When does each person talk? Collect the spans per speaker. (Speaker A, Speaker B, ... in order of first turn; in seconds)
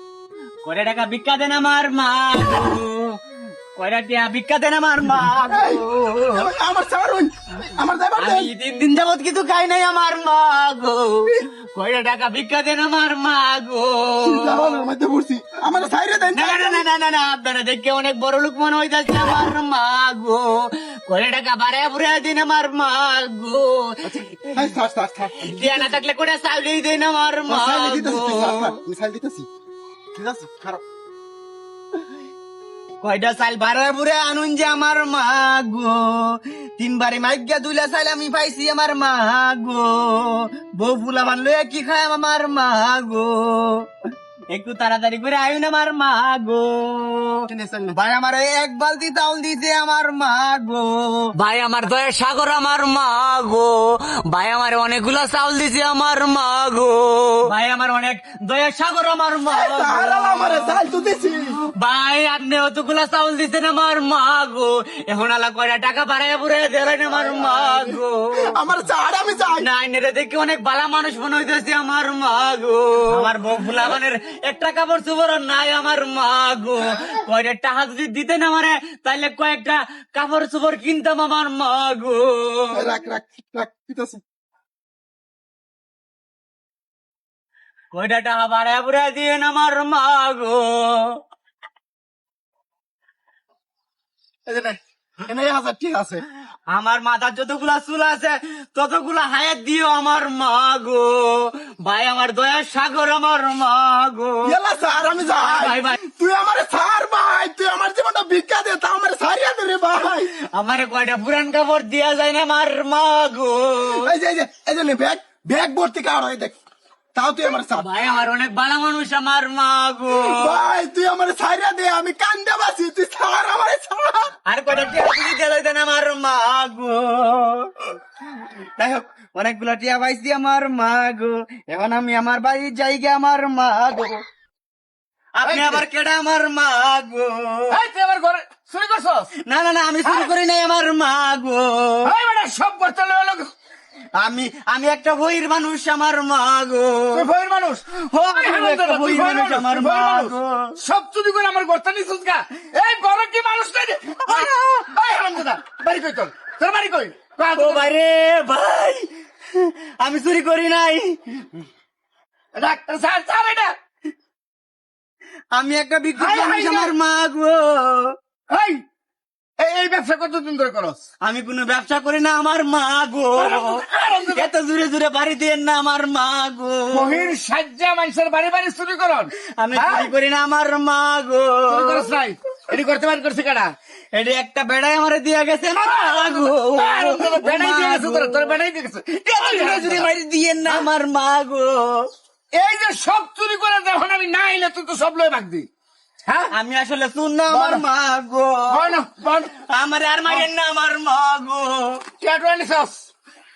Speaker A: 0.6-3.2, 3.8-6.5, 8.2-14.8, 16.3-24.1, 25.4-28.7, 33.0-43.9, 44.5-60.8, 61.8-68.2, 69.6-82.9, 87.9-91.2, 96.7-104.5, 105.2-106.0, 110.5-114.1, 117.8-120.5, 124.5-127.7, 128.8-134.2, 135.4-137.8, 139.4-142.1, 144.2-147.3, 148.1-150.7, 154.2-154.9, 157.6-161.2, 165.5-168.2, 171.2-177.3, 179.4-182.0, 184.1-188.5, 189.3-192.1, 196.5-198.9, 199.6-202.0
Speaker B: 5.5-8.5, 14.2-16.8, 24.0-26.0, 27.5-29.5, 30.1-30.8, 47.5-48.0, 59.5-61.6, 68.4-69.7, 82.7-84.2, 94.5-96.2, 104.5-110.3, 113.8-116.6, 117.2-117.9, 120.1-124.3
Speaker C: 67.3-67.7, 135.4-135.8, 137.7-139.3, 140.1-140.3, 142.1-143.5, 147.1-147.8, 148.3-157.9, 162.6-163.7, 166.2-166.9, 168.5-168.8, 169.6-171.0, 173.4-174.5, 176.9-180.1, 181.7-183.7, 185.8-190.1, 192.6-195.7, 196.3-196.5, 197.5-197.8, 198.7-199.5, 202.2-203.1